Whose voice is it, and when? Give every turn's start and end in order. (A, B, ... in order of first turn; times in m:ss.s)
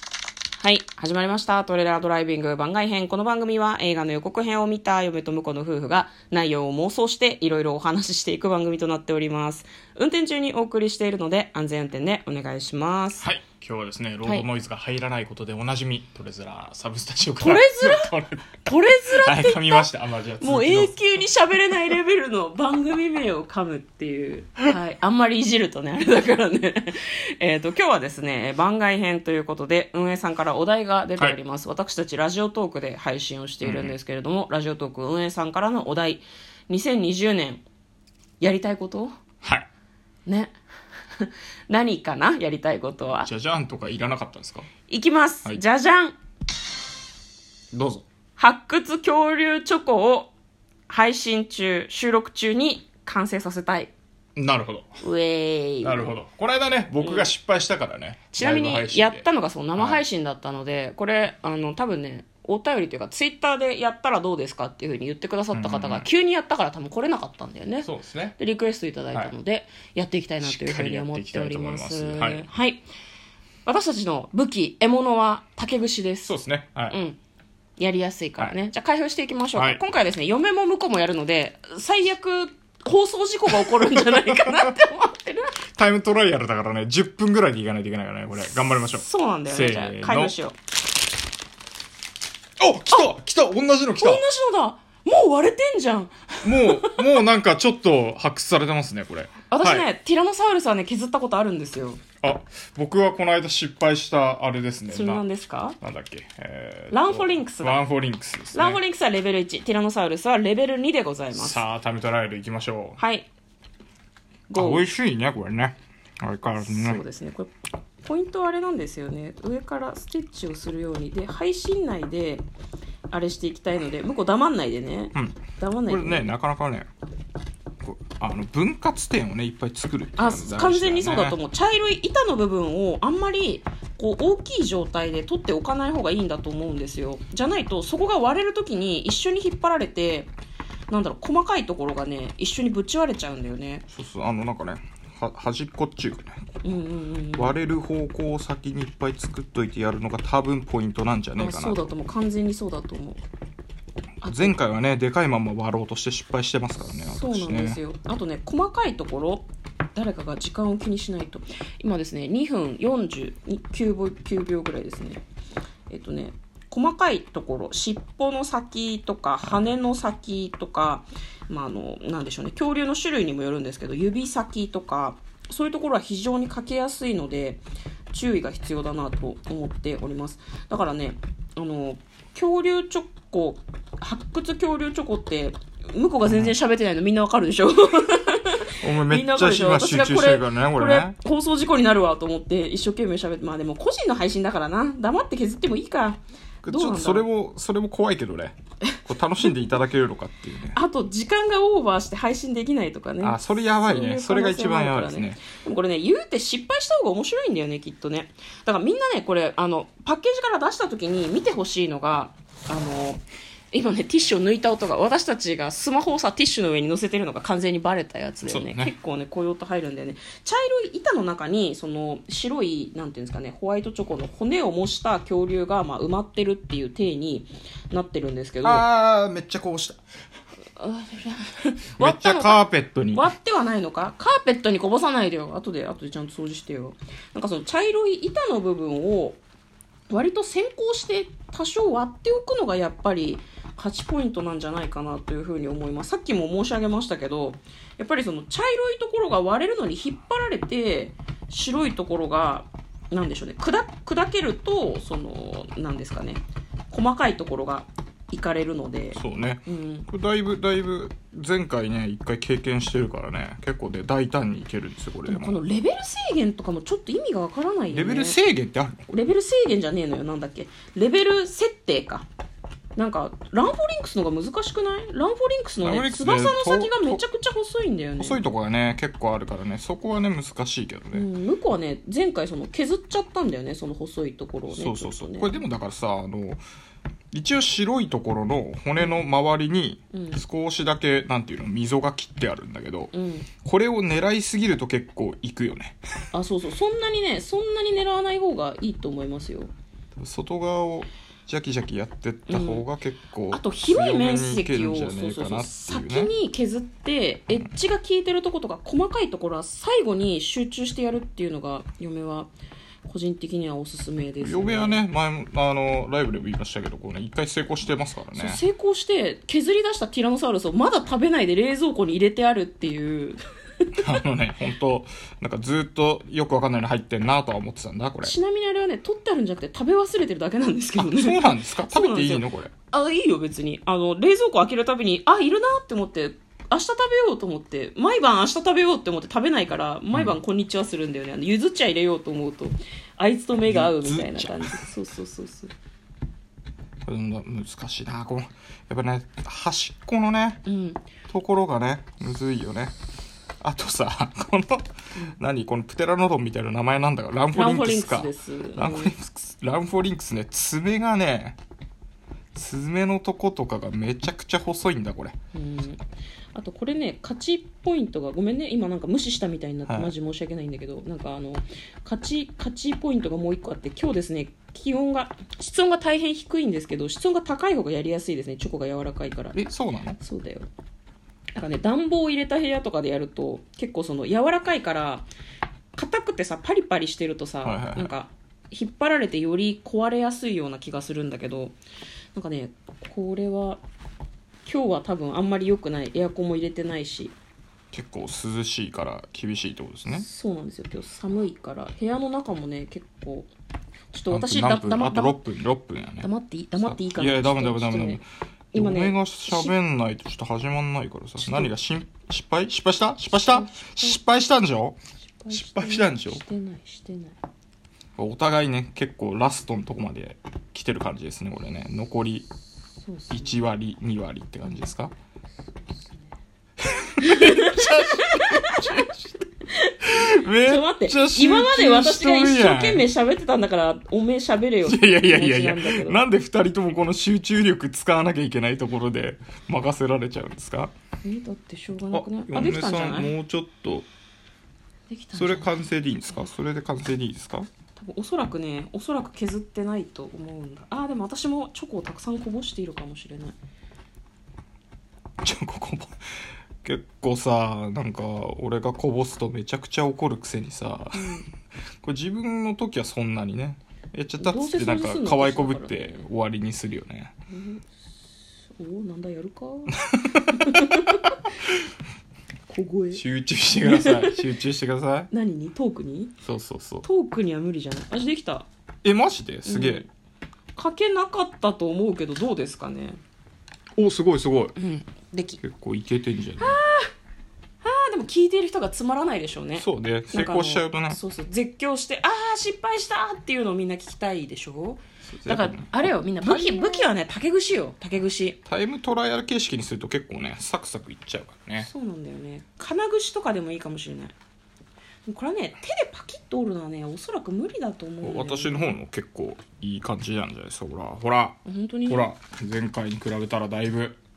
0:00.6-0:13.3 A
0:13.2-0:18.5 B
0:17.4-0:18.1 A
0:18.6-0:37.6 A
0:19.0-0:21.2 B
0:33.6-0:34.0 B
0:38.4-0:39.1 A
0:40.3-0:40.5 A
0:41.2-0:43.3 A
0:43.2-0:44.7 B
0:44.9-0:46.2 A
0:47.7-0:48.0 B
0:48.4-0:50.3 A
0:50.9-0:53.9 A
0:54.4-0:54.9 B
0:55.0-0:56.2 A
0:55.8-0:59.3 B
0:57.0-0:57.3 A
0:58.3-1:12.8 A
0:59.8-1:00.0 B
1:05.5-1:06.1 B
1:07.8-1:08.4 B
1:10.4-1:12.5 B
1:13.7-1:16.3 A
1:16.3-1:17.0 B
1:16.9-1:17.2 A
1:17.8-1:25.6 A
1:19.6-1:19.8 B
1:23.7-1:24.8 B
1:25.8-1:30.3 B
1:28.9-1:30.6 A
1:32.6-1:34.2 B
1:34.0-1:37.0 A
1:36.4-1:39.9 B
1:39.5-1:42.0 A
1:42.2-1:45.2 B
1:44.9-1:45.8 A
1:45.8-1:48.8 B
1:46.9-1:47.8 A
1:48.5-1:51.6 A
1:51.3-1:53.0 B
1:53.0-1:53.3 A
1:54.5-1:54.9 A
1:54.6-1:57.0 B
1:56.6-1:57.5 A
1:58.0-2:02.5 A
2:03.1-2:06.3 A
2:05.2-2:06.9 B
2:07.8-2:11.4 B
2:10.2-2:20.3 A
2:20.9-2:23.8 A
2:23.9-2:26.6 B
2:26.6-2:27.6 A
2:27.4-2:31.9 B
2:31.4-2:33.2 A
2:34.2-2:34.6 A
2:34.2-2:37.8 B
2:37.0-2:45.2 A
2:45.9-3:17.3 A
3:06.3-3:06.6 B
3:08.8-3:11.2 B
3:16.6-3:20.8 B
3:18.9-3:19.5 A
3:20.7-3:48.9 A
3:23.2-3:25.4 B
3:38.4-3:38.9 B
3:48.6-3:50.0 B
3:50.8-3:59.4 A
3:52.0-3:53.3 B
4:00.1-4:20.1 A
4:19.2-4:25.6 B
4:25.2-4:28.4 A
4:27.9-4:29.1 B
4:29.1-4:32.3 A
4:33.0-4:38.4 A
4:35.8-4:37.2 B
4:38.2-4:41.3 B
4:41.1-4:45.6 A
4:44.7-4:46.6 B
4:47.3-4:56.0 B
4:49.0-4:49.2 A
4:50.1-4:50.4 A
4:53.1-4:53.5 A
4:56.3-4:59.7 A
5:00.2-5:06.3 B
5:02.5-5:02.8 A
5:03.5-5:12.5 A
5:13.0-5:15.0 A
5:14.4-5:18.6 B
5:18.3-5:23.4 A
5:24.0-5:28.4 B
5:28.2-5:45.7 A
5:31.0-5:32.7 B
5:43.7-5:44.8 B
5:47.1-5:50.6 B
5:50.7-5:51.0 A
5:51.3-5:53.0 B
5:53.6-6:01.6 B
5:57.5-5:59.2 A
6:02.6-6:05.4 B
6:05.5-6:06.0 A
6:06.5-6:19.6 A
6:09.9-6:10.1 B
6:19.5-6:20.2 B
6:20.2-6:20.7 A
6:21.6-6:25.3 A
6:26.0-6:31.8 A
6:27.6-6:28.1 B
6:32.3-6:33.8 A
6:34.7-6:37.4 A
6:37.9-6:40.3 B
6:40.1-6:43.5 A
6:44.1-6:45.4 A
6:44.3-6:46.3 B
6:46.2-6:48.2 A
6:46.8-6:55.0 B
6:48.7-6:49.7 A
6:51.4-6:51.7 A
6:53.3-6:54.2 A
6:55.4-6:57.4 A
6:55.5-6:56.4 B
6:58.2-7:02.5 B
7:03.0-7:03.6 A
7:03.3-7:05.1 B
7:06.8-7:09.3 B
7:07.2-7:09.1 A
7:09.7-7:16.2 A
7:10.0-7:13.1 B
7:14.8-7:20.9 B
7:21.2-7:23.3 A
7:22.1-7:24.1 B
7:25.1-7:25.7 A
7:25.3-7:27.7 B
7:28.0-7:33.6 A
7:35.4-7:36.2 B
7:36.8-7:41.4 B
7:41.2-7:41.5 A
7:42.0-7:47.3 B
7:44.4-7:46.3 A
7:47.5-7:47.9 A
7:48.7-7:51.4 A
7:50.0-7:50.8 B
7:52.7-7:53.2 A
7:53.1-7:55.3 B
7:53.8-7:54.4 A
7:55.3-7:56.3 A
7:56.4-7:57.0 B
7:57.0-7:58.7 A
7:59.0-8:00.1 B
7:59.6-8:00.1 A
8:00.8-8:03.2 A
8:04.0-8:04.8 B
8:04.8-8:05.6 A
8:05.6-8:06.8 B
8:06.6-8:07.1 A
8:07.8-8:18.6 A
8:09.8-8:11.2 B
8:15.3-8:17.1 B
8:18.7-8:21.9 B
8:21.8-8:24.3 A
8:25.3-8:28.9 A
8:28.2-8:34.2 B
8:31.6-8:32.3 A